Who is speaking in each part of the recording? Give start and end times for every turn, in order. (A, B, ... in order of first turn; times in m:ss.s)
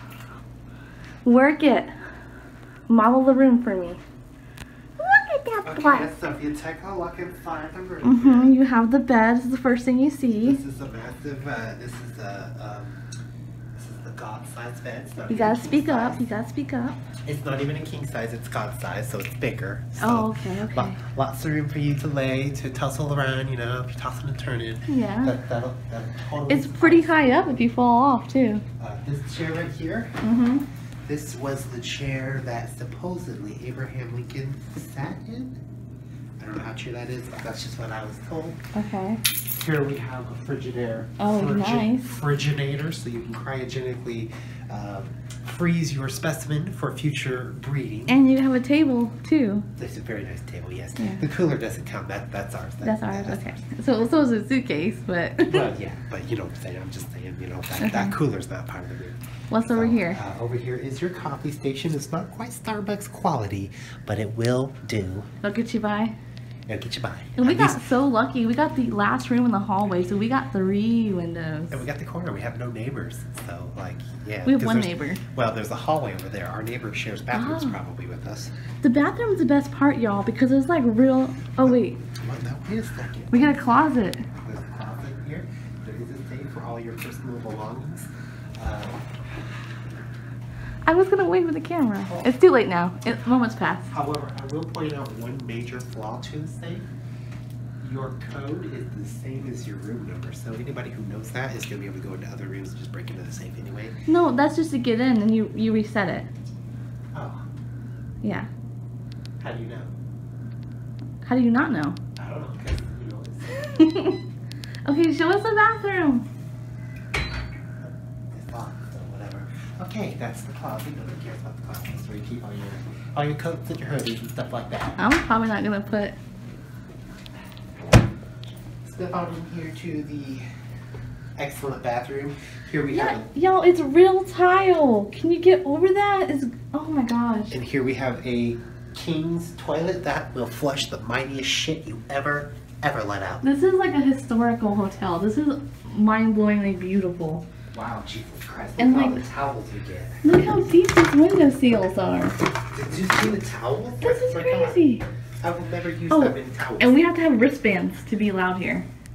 0:01.2-0:01.9 A
0:02.9-0:04.0 A
0:05.0-0:06.1 A
0:05.6-0:08.5 B
0:08.0-0:10.6 A
0:10.4-0:13.0 B
0:13.7-0:16.2 B
0:15.3-0:17.0 A
0:17.2-0:27.6 B
0:20.0-0:21.0 A
0:24.9-0:25.4 A
0:26.5-0:28.6 A
0:28.8-0:30.1 B
0:30.2-0:30.6 A
0:31.0-0:35.6 B
0:36.4-0:38.6 B
0:38.7-0:39.2 A
0:39.5-0:48.2 B
0:41.2-0:42.1 A
0:48.1-0:49.7 A
0:49.8-0:53.6 B
0:51.0-0:51.2 A
0:52.8-0:55.7 A
0:55.4-1:05.3 B
0:57.8-0:58.1 A
0:59.5-1:00.2 A
1:05.4-1:06.1 A
1:06.7-1:07.8 B
1:07.4-1:11.8 A
1:11.7-1:18.5 B
1:14.4-1:15.2 A
1:17.3-1:17.8 A
1:18.8-1:22.0 A
1:21.6-1:23.6 B
1:23.3-1:24.2 A
1:24.4-1:29.0 B
1:30.8-1:33.9 A
1:33.9-1:36.9 B
1:37.8-1:44.0 B
1:44.1-1:46.3 A
1:47.1-1:47.4 B
1:48.2-1:48.5 A
1:49.4-1:49.9 B
1:51.2-1:52.0 A
1:52.2-1:53.5 B
1:53.5-1:54.2 A
1:54.8-1:56.3 A
1:57.8-2:05.0 B
2:05.0-2:06.2 A
2:08.8-2:10.4 B
2:11.4-2:13.3 B
2:12.9-2:17.6 A
2:17.5-2:23.4 B
2:23.4-2:27.4 A
2:27.7-2:30.2 B
2:28.8-2:29.2 A
2:30.2-2:32.4 A
2:32.7-2:34.8 B
2:34.0-2:35.0 A
2:35.4-2:37.0 B
2:36.1-2:38.8 A